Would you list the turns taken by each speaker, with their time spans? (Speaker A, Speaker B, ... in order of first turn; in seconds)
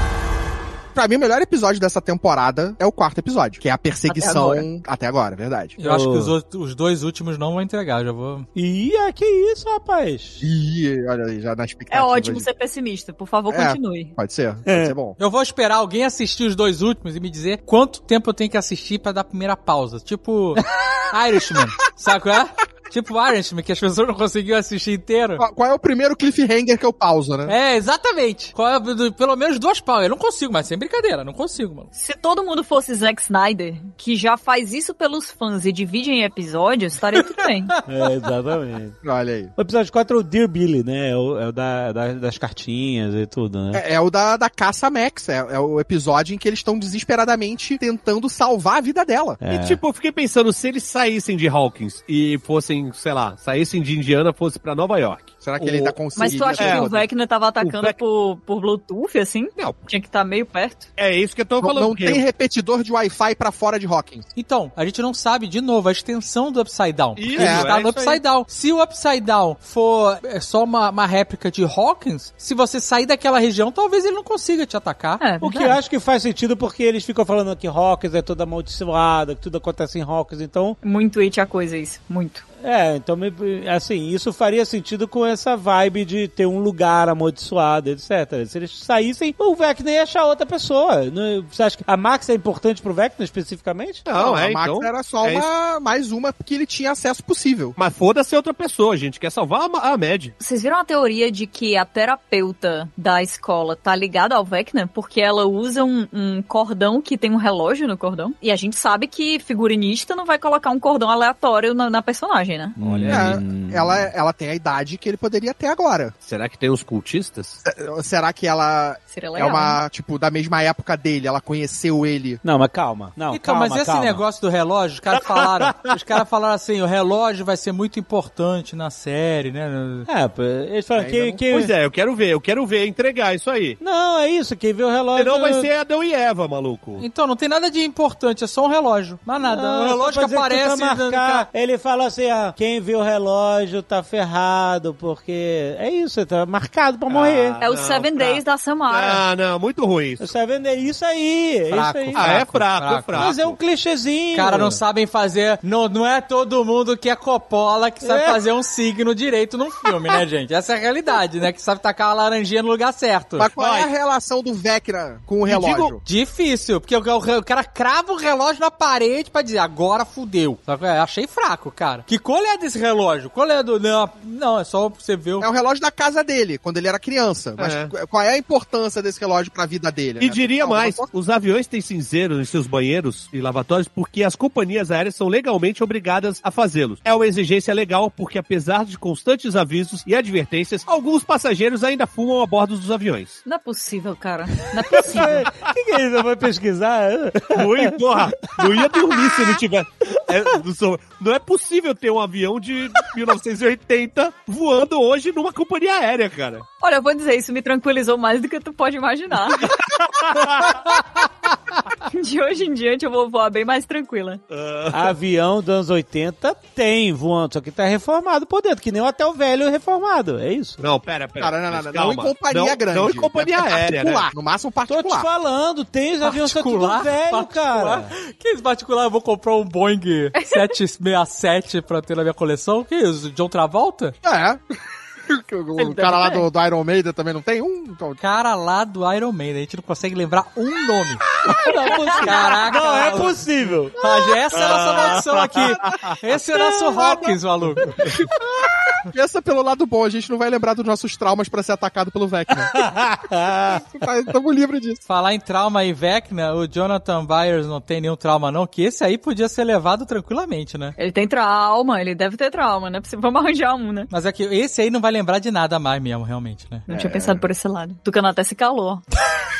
Speaker A: 0.9-5.8, 10.4-12.5, 13.5-15.2, 25.4-27.5, 39.0-39.5, 43.7-49.4, 55.4-57.1, 61.6-64.2, 67.3-67.7, 94.1-97.7, 113.0-116.1, 117.6-122.4, 130.9-131.3, 163.4-166.0, 175.4-181.1, 221.4-225.3, 234.2-234.6, 235.3-238.2, 246.6-247.4, 248.6-252.8, 253.7-255.0, 266.9-267.4
Speaker B: 4.0-4.7, 11.9-14.1, 31.9-37.7, 56.1-60.9, 75.2-75.8, 80.8-82.4, 100.4-112.8, 119.1-119.8, 147.6-149.2, 193.4-195.5, 206.8-209.8, 212.1-214.4, 230.3-230.7, 235.8-236.4, 241.8-242.2, 261.0-264.1, 266.9-269.0
Speaker C: 5.8-8.5, 15.2-25.4, 27.4-31.9, 64.3-75.3, 123.3-130.1, 137.0-141.4, 151.7-153.3, 154.3-163.5, 166.0-175.5, 226.2-234.2, 238.2-241.3, 242.1-243.4, 243.9-248.0, 255.1-260.9, 264.1-266.9
Speaker D: 5.8-6.3, 8.5-10.4, 14.7-14.9, 37.8-39.0, 39.5-43.8, 49.4-49.8, 75.4-80.8, 82.6-94.0, 112.8-114.1, 122.4-124.2, 130.1-131.7, 133.8-135.7, 139.4-147.6, 150.2-152.3, 153.2-154.8, 158.0-158.4, 195.0-197.9, 198.5-199.4, 214.9-220.8, 224.9-228.1, 241.4-243.9, 252.6-253.9
Speaker E: 49.5-56.9, 57.6-58.0, 59.6-59.9, 61.0-62.2, 67.2-68.2, 94.0-95.5, 97.8-100.3, 112.8-113.3, 116.2-117.6, 131.4-133.8, 135.1-137.0, 147.1-150.3, 152.1-153.6, 163.5-163.9, 165.5-165.9, 177.6-177.9, 180.2-193.4, 197.5-206.7, 209.7-210.7, 214.5-215.1, 220.8-224.3, 244.5-245.9